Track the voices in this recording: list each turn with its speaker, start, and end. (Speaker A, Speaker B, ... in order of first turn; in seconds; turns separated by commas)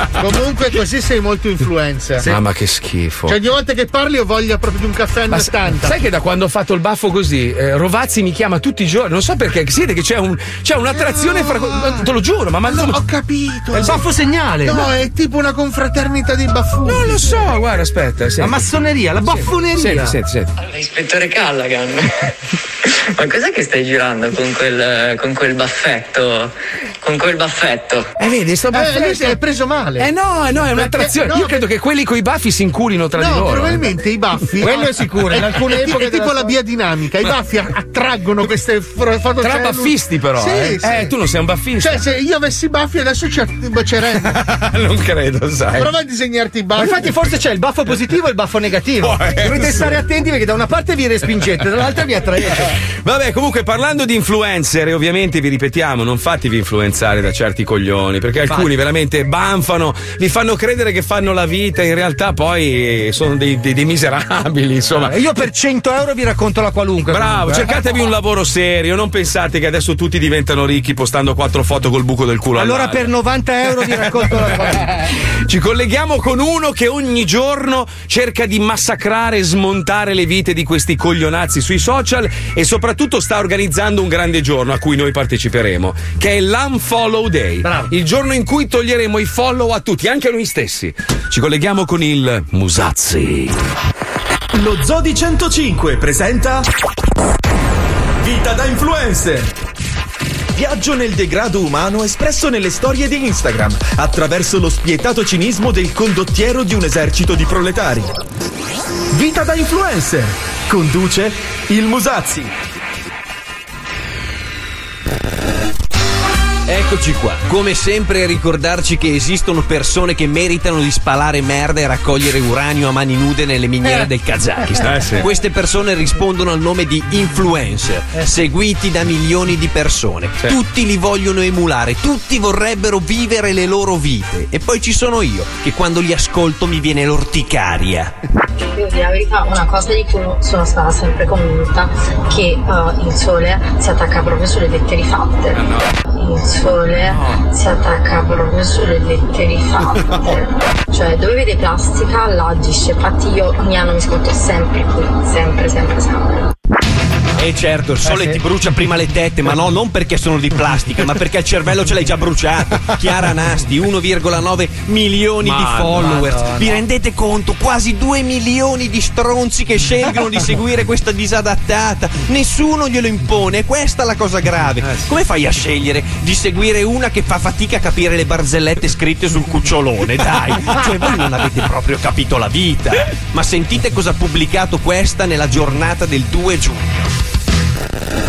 Speaker A: 0.2-2.3, Speaker B: 2.2-3.4, Speaker A: 3.3-6.0, Speaker B: 5.3-13.0, Speaker A: 10.9-12.1, Speaker A: 12.7-14.0, Speaker C: 13.7-14.8, Speaker A: 14.6-17.3, Speaker B: 16.9-18.7, Speaker C: 18.4-20.2, Speaker B: 19.2-20.5, Speaker D: 20.6-22.1, Speaker D: 23.1-28.1, Speaker B: 28.2-29.4, Speaker A: 28.7-30.1, Speaker B: 30.0-33.8, Speaker A: 30.7-31.6, Speaker A: 33.2-41.1, Speaker C: 34.6-36.5, Speaker B: 39.4-42.0, Speaker A: 41.8-44.4, Speaker B: 44.2-45.9, Speaker A: 45.8-47.1, Speaker C: 46.8-52.7, Speaker B: 49.0-50.0, Speaker B: 53.0-65.2, Speaker C: 65.0-67.8, Speaker B: 67.1-73.1, Speaker C: 72.6-75.0, Speaker B: 75.3-93.6, Speaker C: 87.6-87.9, Speaker E: 94.5-96.7, Speaker E: 98.2-99.5, Speaker E: 100.5-108.2, Speaker E: 109.1-112.5, Speaker F: 116.7-138.1, Speaker B: 124.8-125.3, Speaker G: 138.7-156.5, Speaker B: 145.6-145.9, Speaker F: 157.4-186.9, Speaker C: 158.0-158.4, Speaker B: 165.4-166.1, Speaker C: 165.9-166.8, Speaker B: 174.8-175.1